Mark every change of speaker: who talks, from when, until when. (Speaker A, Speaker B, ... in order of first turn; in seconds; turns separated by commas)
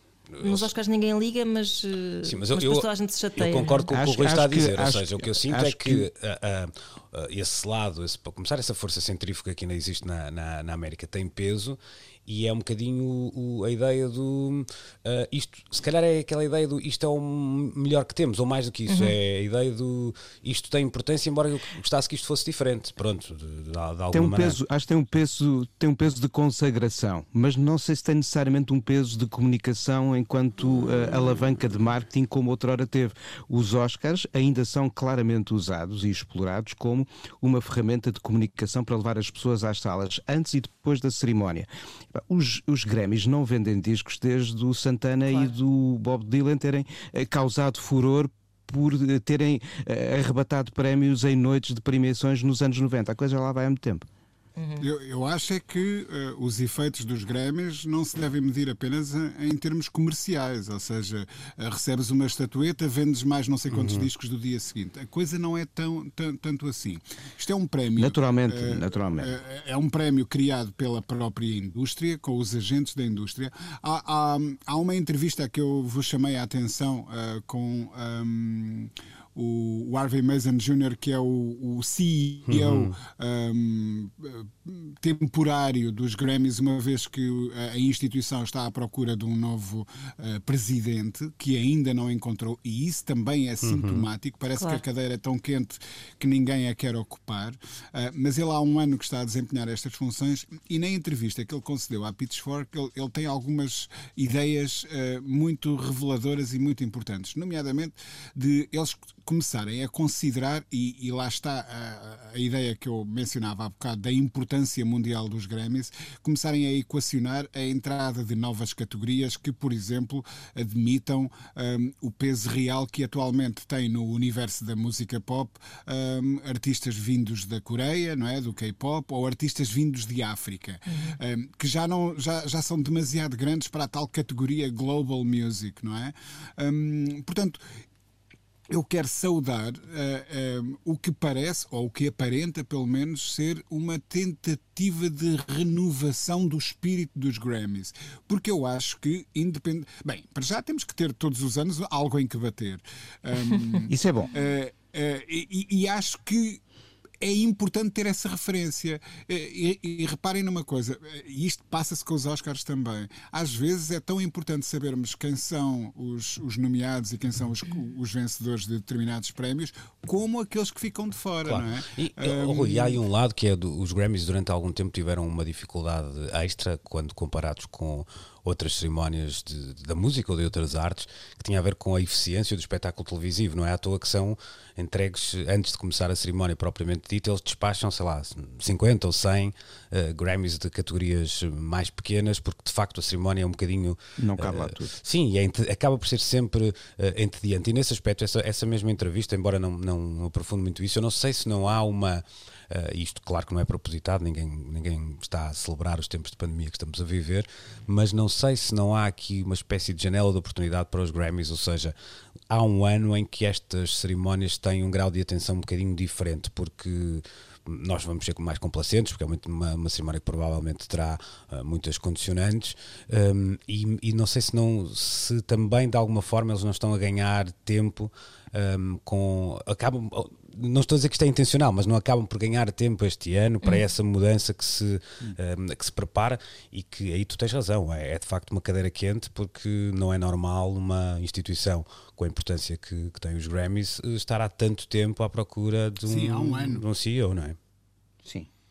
Speaker A: 0.4-0.7, Speaker B: 0.4-3.9, Speaker A: 2.2-24.6, Speaker C: 3.9-6.1, Speaker B: 18.9-19.1, Speaker C: 24.1-54.1, Speaker B: 54.6-54.9, Speaker D: 54.8-137.6, Speaker A: 63.7-64.1, Speaker C: 68.0-69.3, Speaker A: 82.5-83.0, Speaker A: 93.6-94.1, Speaker B: 94.6-94.8, Speaker B: 130.9-131.2, Speaker D: 138.7-156.6, Speaker C: 153.9-154.3, Speaker D: 157.2-173.0, Speaker A: 171.4-211.9, Speaker C: 194.2-194.9, Speaker A: 212.5-247.6, Speaker D: 246.1-246.8, Speaker C: 248.2-248.5